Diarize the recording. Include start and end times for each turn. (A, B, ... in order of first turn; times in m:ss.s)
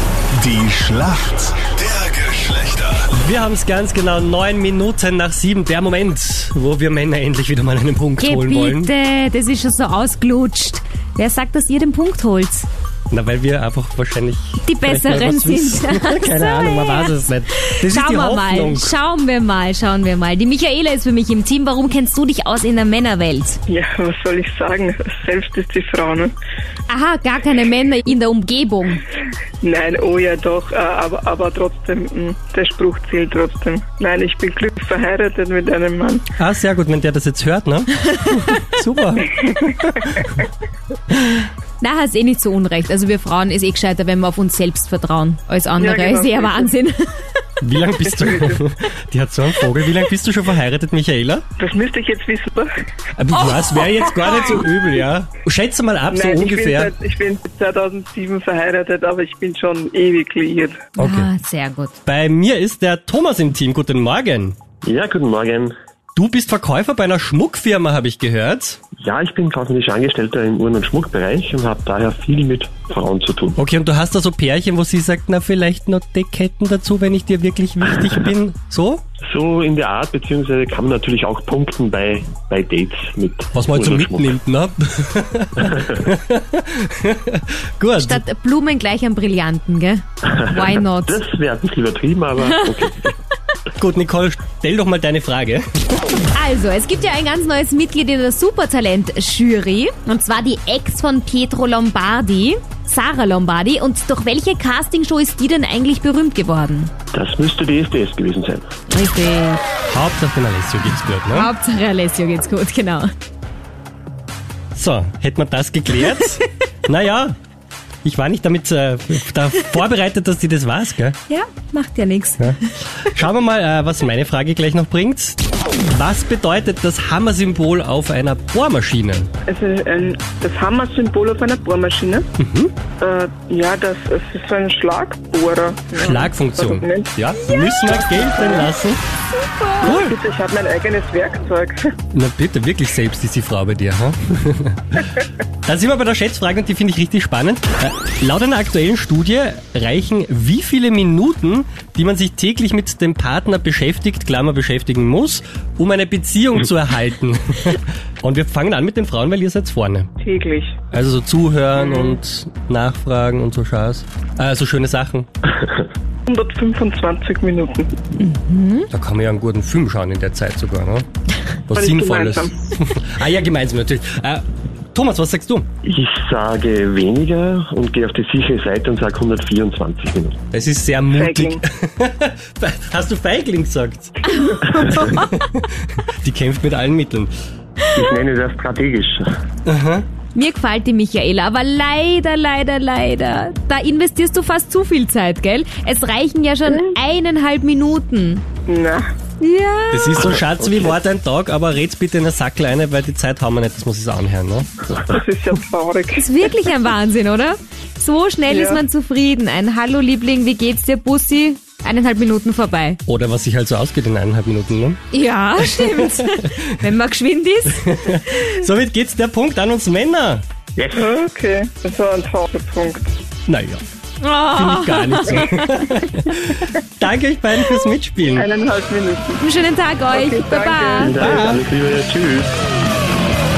0:00.3-0:03.1 A
0:03.1-0:08.9 B
0:08.2-0:12.7 C
0:13.1-0:18.9 B
0:14.6-0:23.6 C
0:23.7-0:26.3 D
0:26.9-0:29.0 C
0:29.6-0:36.3 D
0:36.4-0:40.4 B
0:41.8-0:47.3 C
0:45.8-0:46.7 D
0:47.6-0:51.4 B
0:48.0-0:48.6 D
0:51.6-0:52.7 D
0:53.2-0:56.9 B
0:53.5-0:54.6 C
0:56.1-1:00.8 D
1:01.0-1:01.3 B
1:01.0-1:02.0 C
1:02.0-1:04.6 B
1:04.8-1:05.7 E
1:06.2-1:08.8 B
1:09.0-1:13.6 E
1:13.6-1:19.0 B
1:19.2-1:24.4 E
1:23.6-1:28.2 B
1:28.0-1:31.2 C
1:30.4-1:33.1 E
1:32.4-1:32.8 C
1:33.8-1:36.2 B
1:36.2-1:46.9 C
1:47.1-1:48.7 E
1:48.9-1:49.6 C
1:49.9-1:51.5 B
1:51.3-1:53.1 C
1:54.7-1:57.4 B
1:58.0-2:01.2 B
2:01.3-2:02.6 C
2:02.4-2:09.3 B
2:09.5-2:12.3 D
2:12.4-2:12.8 B
2:13.0-2:17.1 D
2:16.0-2:19.0 B
2:17.8-2:18.7 D
2:19.6-2:19.9 C
2:19.8-2:21.9 D
2:19.8-2:20.2 B
2:22.1-2:25.1 B
2:25.7-2:40.1 B
2:40.2-2:40.8 D
2:40.9-2:45.3 B
2:46.3-2:47.9 D
2:48.2-2:48.9 C
2:48.9-2:51.1 B
2:51.7-2:55.7 B
2:51.7-2:52.5 D
2:55.8-3:00.4 E
3:00.5-3:04.1 B
3:01.1-3:01.6 D
3:04.4-3:05.3 C
3:04.7-3:07.3 B
3:07.9-3:09.3 E
3:09.7-3:10.1 B
3:10.4-3:18.4 C
3:18.7-3:19.1 D
3:19.4-3:20.2 C
3:19.9-3:24.8 B
3:20.2-3:21.0 E
3:24.9-3:26.3 D
3:26.2-3:33.0 C
3:28.5-3:28.8 D
3:33.1-3:35.0 B
3:35.1-3:38.4 C
3:35.6-3:36.9 B
3:37.7-3:40.4 B
3:40.8-3:41.1 E
3:41.0-3:43.1 D
3:43.5-3:43.8 B
3:44.2-3:45.9 C
3:44.5-3:48.5 B
3:48.3-3:49.4 D
3:49.4-3:51.2 C
3:50.1-3:51.4 D
3:51.0-3:52.5 E
3:51.2-3:51.6 B